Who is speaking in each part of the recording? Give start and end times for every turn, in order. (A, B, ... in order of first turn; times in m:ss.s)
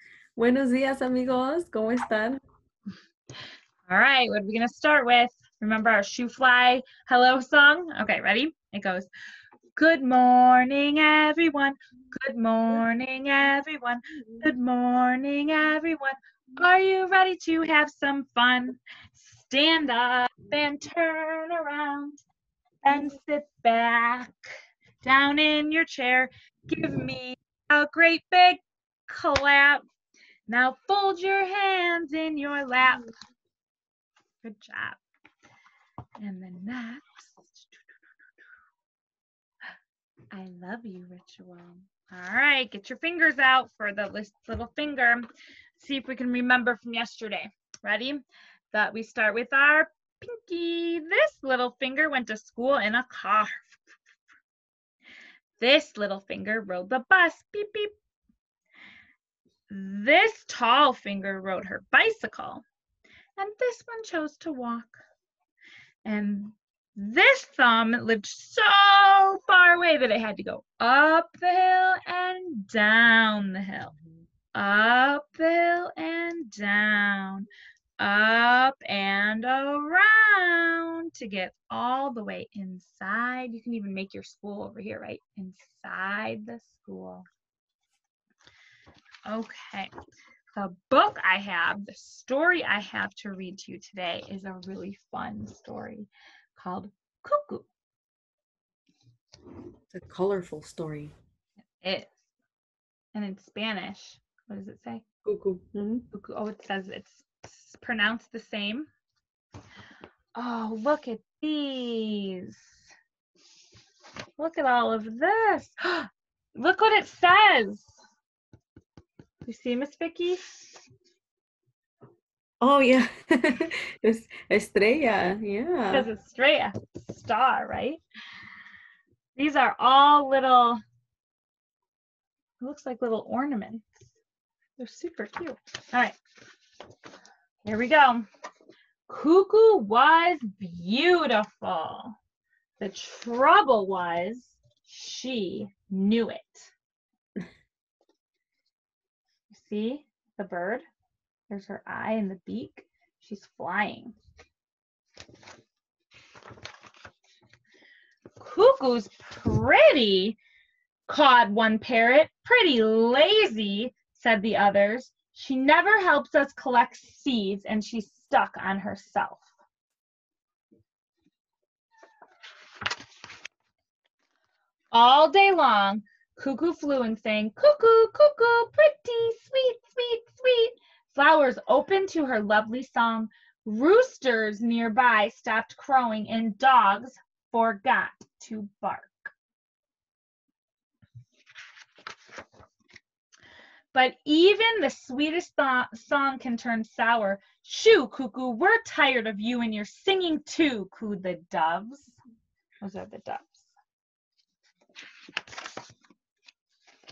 0:00.4-0:02.4 A
0:03.9-0:09.1 B
0:09.8-0:22.2 B
0:22.8-0:24.3 B
0:25.0-0:29.8 B
0:30.5-0:33.1 B
0:34.4-0:35.0 B
0:36.2-0:37.8 B
0:40.3-0:53.8 B
0:55.6-0:57.9 B
0:59.7-1:02.6 B
1:03.4-1:05.0 B
1:06.0-1:13.9 B
1:14.5-1:17.5 B
1:18.0-1:27.2 B
1:29.3-1:29.9 B
1:30.5-1:37.7 B
1:39.9-1:41.1 A
1:41.8-1:42.1 B
1:43.1-1:45.0 B
1:45.2-1:46.0 A
1:46.1-1:48.9 B
1:50.4-1:52.6 B
1:54.4-1:57.9 B
1:59.4-2:00.4 B
2:02.6-2:06.1 A
2:05.9-2:08.0 B
2:09.4-2:10.8 B
2:12.6-2:13.8 B
2:14.8-2:16.2 B
2:17.6-2:18.2 B
2:19.1-2:22.2 B
2:22.8-2:26.7 B
2:29.5-2:30.8 B
2:31.5-2:34.2 B
2:38.4-2:40.4 B
2:41.1-2:49.4 B
2:54.9-3:09.3 B
3:13.9-3:22.2 B
3:22.8-3:23.7 B